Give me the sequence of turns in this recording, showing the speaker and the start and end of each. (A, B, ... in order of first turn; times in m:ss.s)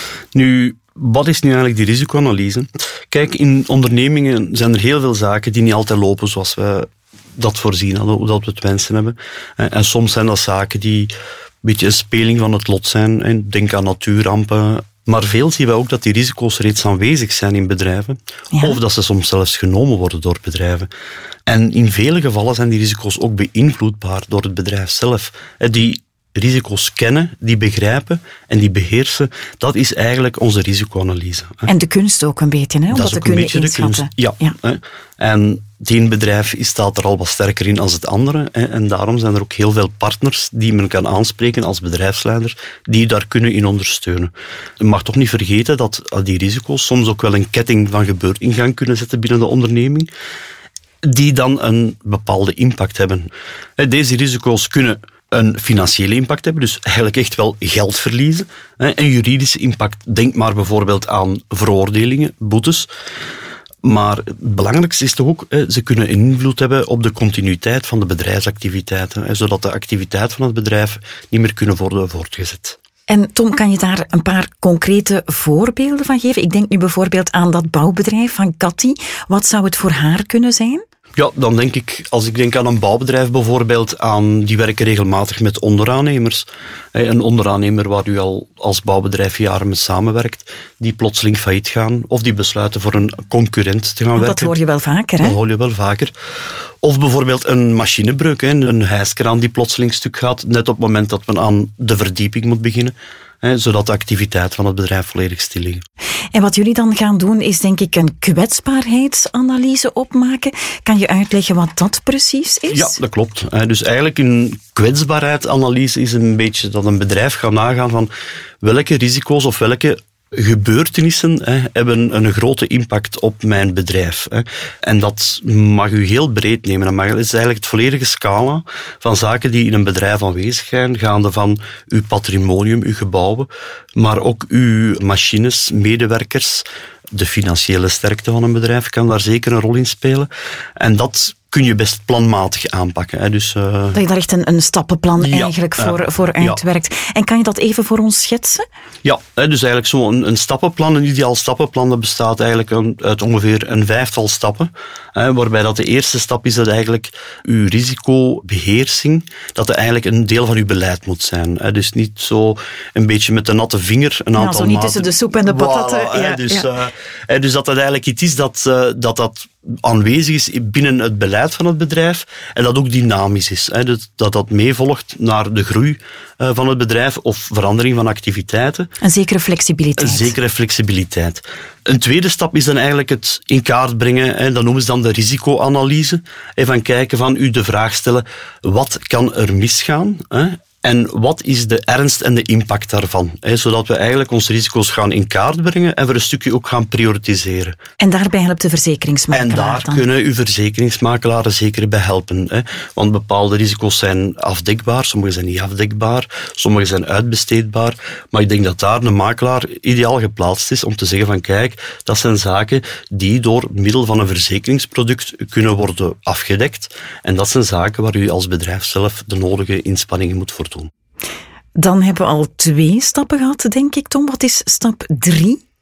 0:00.3-0:11.1 A
0:11.6-0:20.9 A
0:18.5-0:18.8 B
0:21.5-0:31.7 A
0:31.7-0:34.5 B
0:32.9-0:50.1 A
0:51.0-1:02.9 A
1:03.8-1:12.8 A
1:13.1-1:20.8 B
1:21.2-1:34.5 A
1:34.2-1:35.4 B
1:35.2-1:36.1 A
1:36.8-1:45.8 A
1:46.3-1:52.9 B
1:52.7-1:58.1 A
1:58.6-2:24.0 A
2:23.9-2:28.7 B
2:25.2-2:26.6 A
2:29.0-2:58.9 A
2:44.4-2:46.7 B
2:59.0-3:00.3 B
3:00.0-3:17.8 A
3:18.0-3:20.1 B
3:19.3-3:40.9 A
3:41.8-3:45.6 B